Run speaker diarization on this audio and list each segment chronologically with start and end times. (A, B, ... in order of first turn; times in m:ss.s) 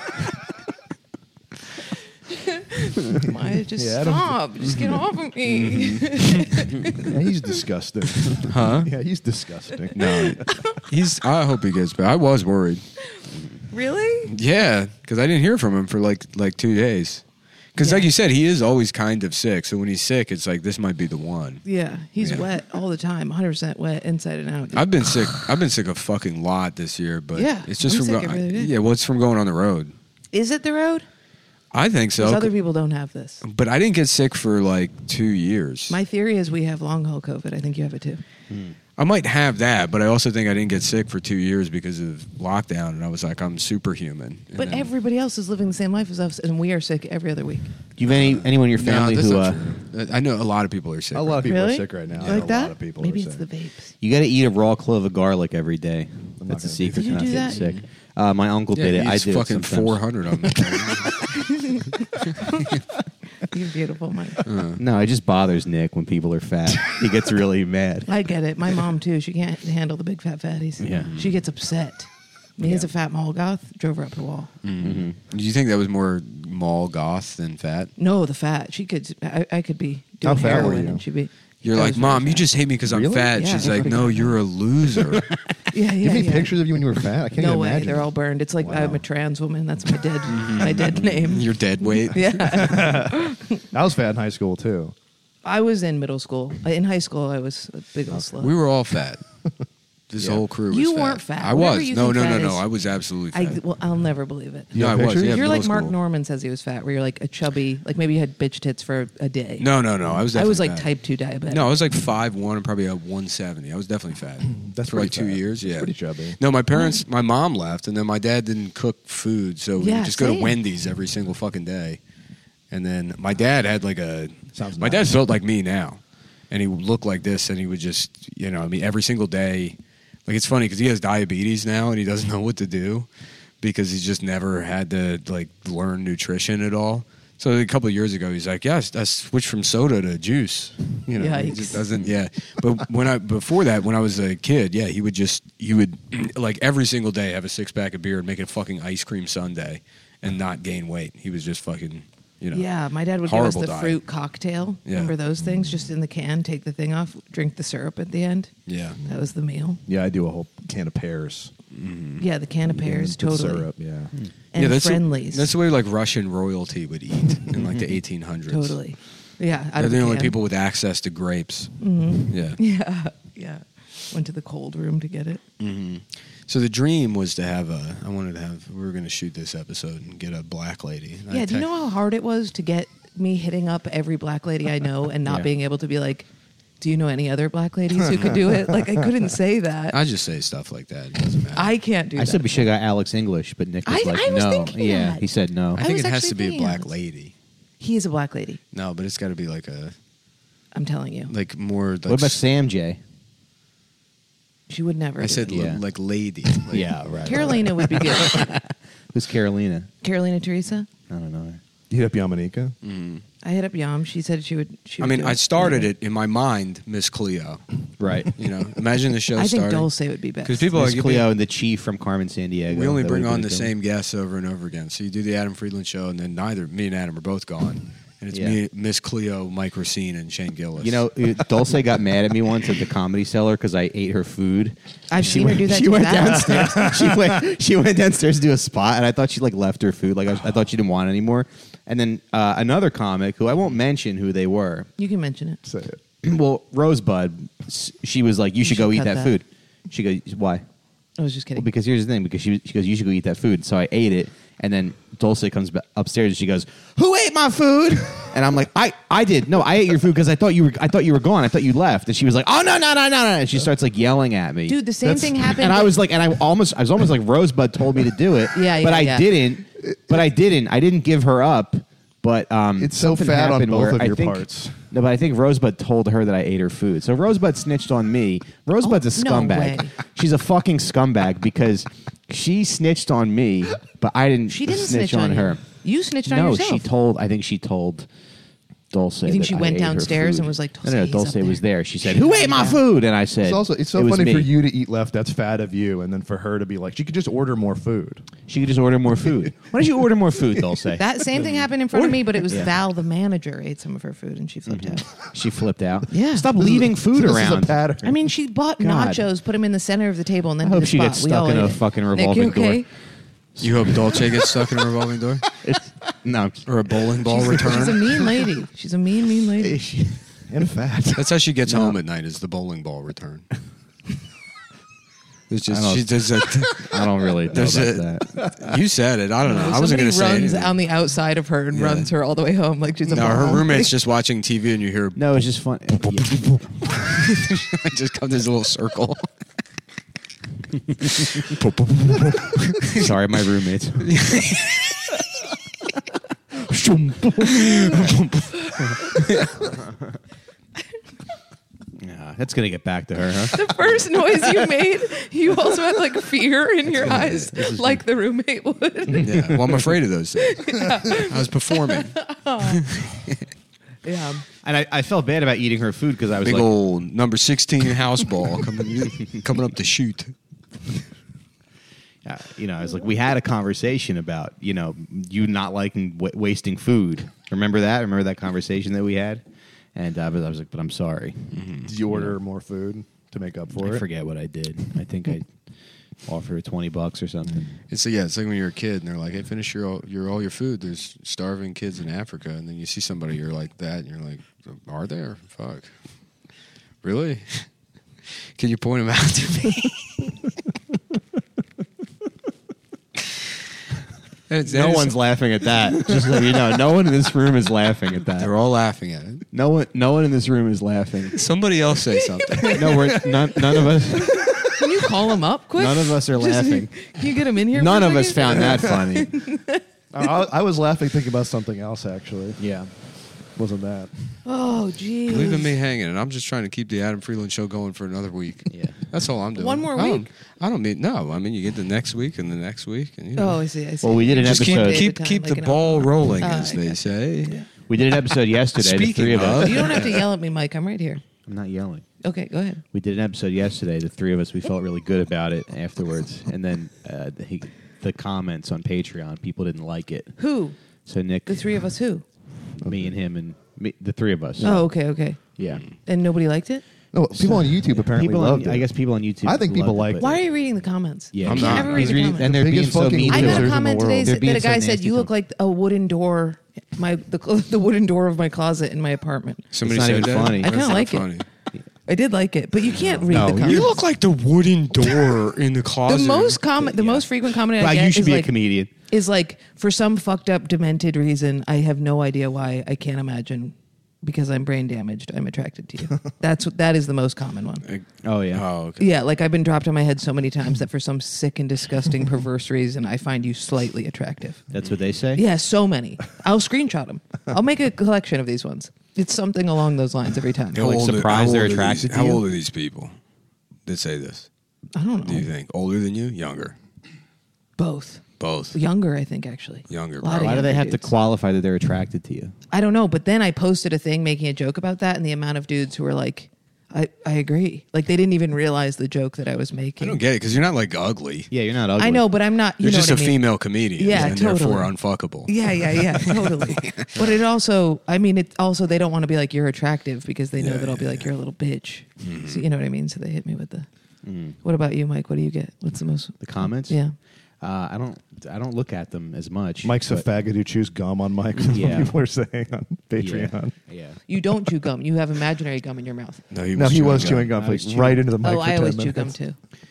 0:02.3-0:07.2 A
0:03.8-0:04.4 B
0:05.5-0:06.5 C
0:07.0-0:10.4 B
0:08.4-0:08.9 C
0:09.9-0:12.8 C
0:10.1-0:10.8 A
0:13.7-0:14.3 A
0:14.3-0:17.2 C
0:17.7-0:21.6 C
0:17.8-0:18.1 A
0:21.6-0:24.9 A
0:22.2-0:22.5 C
0:24.7-0:29.9 C
0:27.3-0:28.7 A
0:30.3-0:31.0 A
0:31.7-0:32.5 C
0:32.2-0:33.4 A
0:33.4-0:36.0 C
0:35.9-0:38.2 A
0:38.5-0:38.8 D
0:39.0-0:44.9 C
0:44.5-0:47.7 A
0:48.0-0:49.7 D
0:48.1-0:51.5 C
0:51.1-0:53.4 B
0:51.4-0:53.9 A
0:52.1-0:52.4 C
0:54.0-1:00.6 D
0:56.4-0:56.8 B
0:56.8-0:57.8 C
0:56.9-0:57.6 A
0:58.7-1:01.3 C
1:01.4-1:01.9 A
1:02.4-1:02.7 A
1:03.4-1:04.4 A
1:04.4-1:04.8 C
1:04.8-1:08.1 D
1:08.1-1:14.5 A
1:10.8-1:11.1 D
1:11.1-1:11.3 C
1:14.6-1:17.9 C
1:14.8-1:15.2 D
1:18.0-1:22.5 A
1:20.2-1:21.0 B
1:20.4-1:20.7 C
1:21.6-1:25.3 C
1:22.8-1:24.3 B
1:23.3-1:23.9 A
1:24.9-1:25.4 B
1:25.7-1:26.6 A
1:26.0-1:29.0 B
1:27.4-1:31.5 A
1:30.3-1:32.8 C
1:32.1-1:33.6 A
1:32.5-1:34.9 B
1:35.4-1:38.5 A
1:38.4-1:39.2 C
1:40.1-1:43.6 C
1:40.7-1:42.6 A
1:43.3-1:51.7 A
1:44.7-1:45.5 B
1:44.7-1:45.9 C
1:49.6-1:50.9 C
1:51.4-2:02.0 C
1:54.6-1:56.4 B
1:56.7-1:57.0 A
1:59.8-2:00.6 A
2:02.7-2:13.1 C
2:04.5-2:05.2 B
2:13.6-2:32.6 C
2:21.1-2:22.0 A
2:32.5-2:38.5 A
2:33.2-2:34.0 C
2:34.8-2:35.1 C
2:38.6-2:39.0 C
2:39.0-2:39.8 A
2:39.8-2:41.5 B
2:41.7-2:42.2 C
2:42.2-2:43.7 A
2:42.7-2:44.1 B
2:44.5-2:45.5 A
2:44.5-2:48.8 C
2:48.5-2:50.4 A
2:49.8-2:51.8 C
2:51.8-2:55.4 A
2:52.3-2:52.6 C
2:55.6-3:01.7 C
3:01.3-3:06.3 A
3:06.8-3:10.0 A
3:08.1-3:08.4 C
3:09.9-3:11.7 C
3:11.5-3:12.6 A
3:12.2-3:15.8 D
3:13.8-3:16.9 A
3:15.7-3:17.3 C
3:17.8-3:18.6 A
3:18.7-3:19.9 C
3:20.7-3:21.3 A
3:21.3-3:22.4 C
3:22.1-3:23.0 D
3:24.7-3:25.7 A
3:25.2-3:27.0 C
3:25.5-3:25.8 D
3:26.6-3:29.9 D
3:27.2-3:28.5 A
3:30.0-3:30.9 A
3:31.1-3:31.6 D
3:31.9-3:32.8 B
3:32.8-3:33.2 C
3:33.4-3:35.9 A
3:35.0-3:37.6 C
3:38.0-3:38.3 D
3:38.3-3:39.9 C
3:39.4-3:40.7 A
3:40.4-3:41.3 C
3:40.7-3:43.7 D
3:42.7-3:51.0 C
3:48.3-3:48.6 D
3:50.8-4:04.9 D
3:55.1-3:56.9 A
3:56.5-3:57.3 B
4:05.0-4:05.6 A
4:05.6-4:06.0 B
4:06.2-4:10.6 D
4:08.6-4:09.4 A
4:11.2-4:11.7 A
4:11.5-4:45.6 D
4:24.7-4:26.0 A
4:25.0-4:25.4 B
4:28.5-4:29.4 A
4:32.8-4:34.8 B
4:38.8-4:39.9 A
4:44.5-4:46.9 A
4:46.2-4:48.1 D
4:48.9-4:54.5 D
4:49.2-4:52.8 A
4:53.4-4:58.3 B
4:58.5-5:01.2 D
5:01.0-5:05.1 A
5:01.9-5:02.8 D
5:04.6-5:08.1 D
5:06.1-5:06.5 A
5:06.5-5:08.1 B
5:08.0-5:12.9 A
5:08.8-5:09.3 D
5:10.6-5:12.9 D
5:13.6-5:15.4 C
5:13.6-5:14.2 D
5:15.6-5:16.7 D
5:16.6-5:18.3 C
5:17.2-5:19.8 A
5:19.8-5:20.2 D
5:20.5-5:21.2 B
5:21.1-5:23.5 C
5:21.6-5:22.0 D
5:25.5-5:27.0 C
5:25.7-5:28.4 D
5:27.5-5:30.8 C
5:29.4-5:33.9 A
5:31.7-5:32.1 C
5:33.1-5:35.2 C
5:35.1-5:37.0 D
5:36.1-5:39.3 C
5:41.0-5:43.1 C
5:43.0-5:44.4 D
5:44.0-5:45.2 C
5:47.2-5:49.5 C
5:52.0-5:53.8 D
5:53.5-5:59.4 A
5:57.0-5:58.0 D
5:59.1-6:03.4 C
5:59.4-5:59.8 D
6:00.4-6:02.8 A
6:04.0-6:04.4 A
6:04.6-6:06.7 D
6:06.4-6:10.3 C
6:12.2-6:22.4 D
6:21.5-6:21.9 C
6:21.8-6:24.0 B
6:23.7-6:25.6 D
6:26.2-6:27.7 D
6:27.9-6:36.0 C
6:37.0-6:37.7 C
6:38.5-6:40.4 C
6:44.5-6:45.3 C
6:44.6-6:48.5 D
6:45.9-6:46.4 C
6:48.4-6:49.4 C
6:49.5-6:51.4 D
6:51.4-6:53.3 C
6:52.4-6:52.9 A
6:52.7-6:54.6 D
6:54.2-6:59.8 A
6:55.8-6:59.4 D
7:00.1-7:02.6 B
7:02.6-7:02.9 D
7:03.5-7:04.1 B
7:04.4-7:05.7 A
7:05.3-7:13.6 C
7:08.7-7:09.0 D
7:09.6-7:10.3 A
7:13.4-7:17.7 A
7:14.0-7:15.1 D
7:14.4-7:17.6 C
7:17.9-7:20.0 D
7:18.8-7:20.3 C
7:19.6-7:21.2 A
7:21.4-7:22.0 D
7:22.2-7:22.8 A
7:22.9-7:30.4 D
7:30.4-7:30.8 A
7:31.0-7:31.8 D
7:31.4-7:32.2 A
7:32.8-7:33.1 B
7:32.8-7:34.9 D
7:34.6-7:36.8 A
7:35.6-7:35.8 D
7:35.6-7:35.9 C
7:37.1-7:40.3 B
7:37.3-7:40.4 D
7:40.2-7:49.7 A
7:41.3-7:45.3 D
7:41.4-7:42.2 C
7:42.0-7:44.4 B
7:49.7-7:51.5 C
7:49.8-7:50.8 D
7:50.4-7:51.4 A
7:52.0-7:54.0 A
7:52.9-7:56.6 C
7:53.3-7:53.9 D
7:56.0-8:07.8 A
7:56.8-7:58.9 D
8:07.8-8:09.1 C
8:08.2-8:08.6 D
8:09.0-8:14.6 A
8:14.7-8:15.4 D
8:15.3-8:20.9 A
8:20.7-8:23.1 C
8:20.7-8:22.4 D
8:23.8-8:24.5 C
8:24.9-8:25.5 A
8:25.2-8:26.7 C
8:27.8-8:31.1 A
8:28.4-8:28.8 C
8:29.9-8:30.7 C
8:30.3-8:32.5 D
8:32.7-8:40.2 A
8:40.0-8:41.5 C
8:41.5-8:42.3 D
8:42.0-8:53.9 A
8:42.8-8:47.4 C
8:50.6-8:51.3 C
8:52.2-8:52.6 C
8:54.2-8:54.6 D
8:54.6-8:57.1 A
8:56.4-8:57.0 D
8:57.6-9:00.2 D
8:59.8-9:03.8 B
9:01.6-9:02.1 D
9:03.2-9:04.2 D
9:04.3-9:06.4 A
9:06.5-9:07.6 C
9:06.7-9:09.3 B
9:07.1-9:08.3 D
9:08.4-9:09.6 A